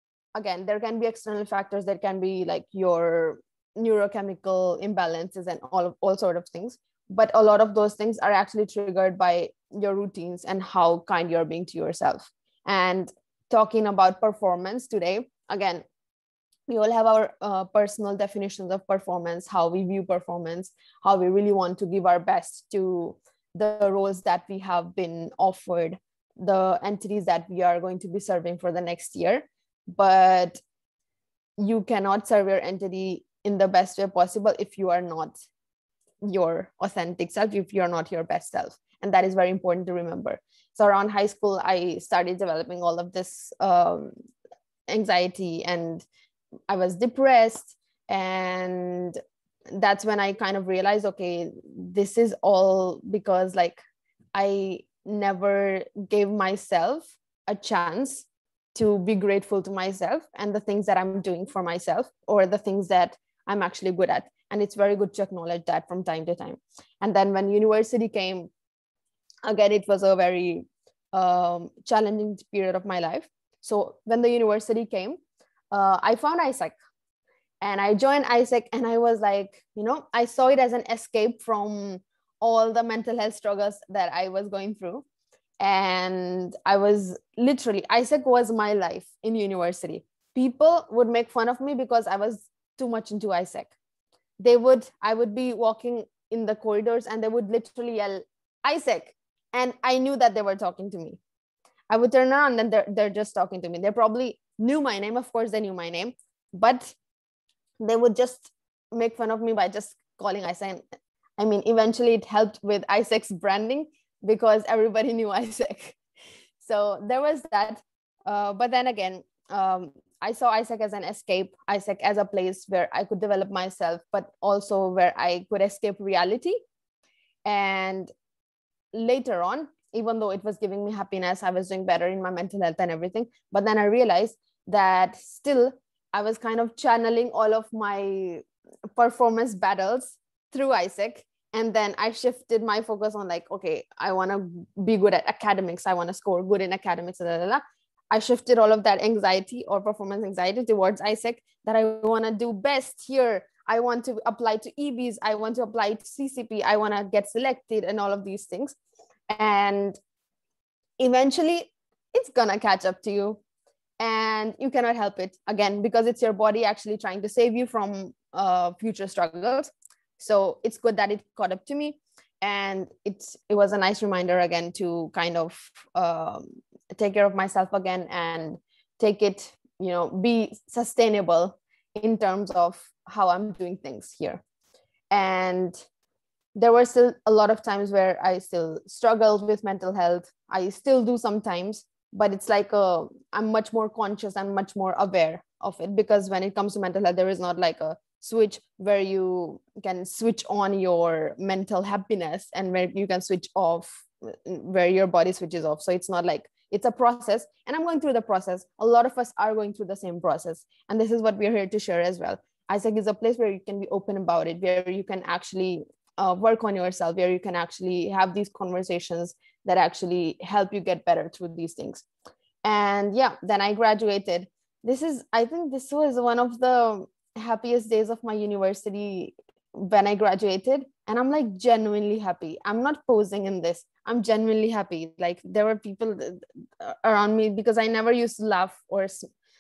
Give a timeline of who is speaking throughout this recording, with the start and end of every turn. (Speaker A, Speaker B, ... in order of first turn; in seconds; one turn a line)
Speaker A: 0.3-15.8
Speaker A: 16.7-30.6
Speaker A: 31.6-35.4
Speaker A: 36.2-44.1
Speaker A: 44.9-46.1
Speaker A: 46.7-49.2
Speaker A: 49.7-53.8
Speaker A: 54.4-58.2
Speaker A: 58.7-68.5
Speaker A: 69.5-75.2
Speaker A: 75.7-76.7
Speaker A: 77.6-85.0
Speaker A: 85.6-93.7
Speaker A: 94.4-101.2
Speaker A: 101.9-106.9
Speaker A: 107.8-110.8
Speaker A: 111.4-116.0
Speaker A: 116.6-126.6
Speaker A: 127.4-128.1
Speaker A: 128.9-138.4
Speaker A: 139.0-158.7
Speaker A: 159.3-160.0
Speaker A: 161.0-163.4
Speaker A: 164.0-184.4
Speaker A: 185.1-185.8
Speaker A: 186.6-222.0
Speaker A: 222.6-239.3